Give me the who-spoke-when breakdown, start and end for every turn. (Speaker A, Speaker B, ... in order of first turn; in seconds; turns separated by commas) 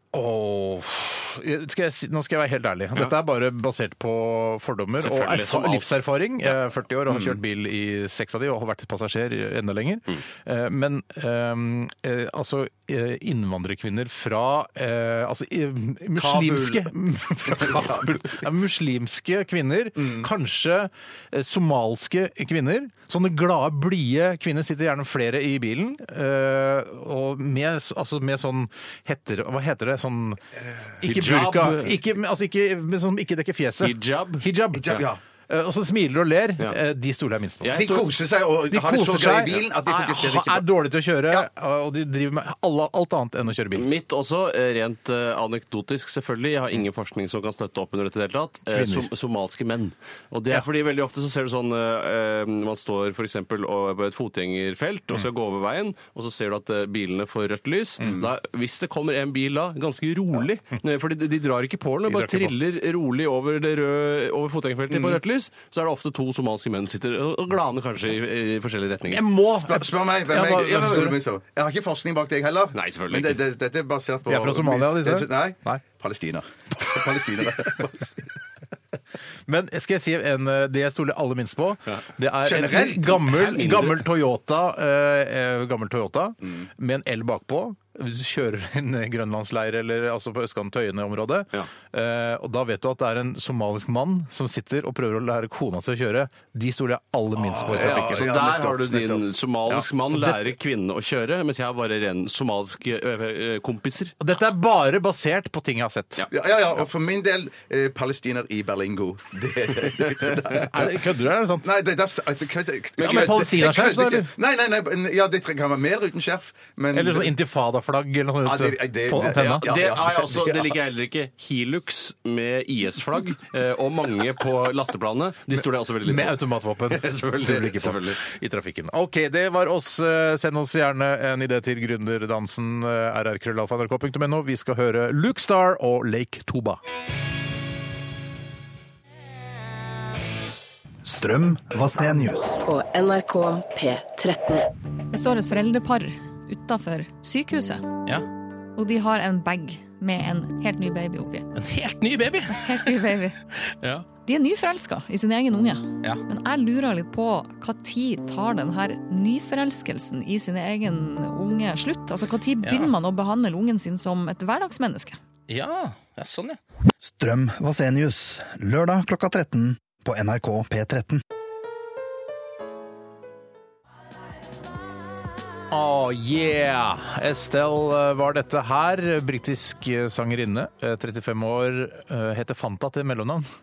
Speaker A: 0.1-30.4, Speaker B: 5.0-5.9, Speaker C: 7.1-7.4, Speaker C: 16.2-16.9, Speaker C: 17.5-18.4, Speaker C: 20.0-20.3, Speaker C: 30.6-30.9, Speaker A: 31.0-37.9, Speaker B: 31.0-32.0, Speaker B: 33.8-34.5, Speaker C: 34.7-35.2, Speaker B: 37.6-38.0, Speaker C: 37.7-40.7, Speaker A: 38.7-43.9, Speaker B: 43.8-69.2, Speaker A: 48.7-49.1, Speaker C: 58.0-58.3, Speaker A: 62.1-62.6, Speaker C: 64.9-65.2, Speaker A: 69.0-71.2, Speaker C: 69.5-78.3, Speaker B: 72.7-73.4, Speaker A: 74.3-75.8, Speaker A: 79.5-98.3, Speaker C: 82.4-83.3, Speaker B: 83.3-84.0, Speaker C: 97.4-99.3, Speaker B: 97.8-104.2, Speaker A: 99.7-100.5, Speaker A: 104.2-106.3, Speaker C: 106.3-111.0, Speaker A: 110.5-111.7, Speaker C: 111.6-117.3, Speaker B: 113.0-113.4, Speaker A: 113.0-114.3, Speaker A: 116.9-119.7, Speaker C: 118.5-120.7, Speaker B: 119.2-128.2, Speaker A: 126.0-136.8, Speaker D: 141.0-142.6, Speaker E: 142.6-144.7, Speaker F: 145.1-147.9, Speaker F: 148.8-151.5, Speaker G: 151.6-153.1, Speaker F: 152.6-153.4, Speaker F: 154.2-165.2, Speaker G: 162.6-162.9, Speaker G: 165.5-166.6, Speaker D: 167.0-171.2, Speaker A: 175.7-183.5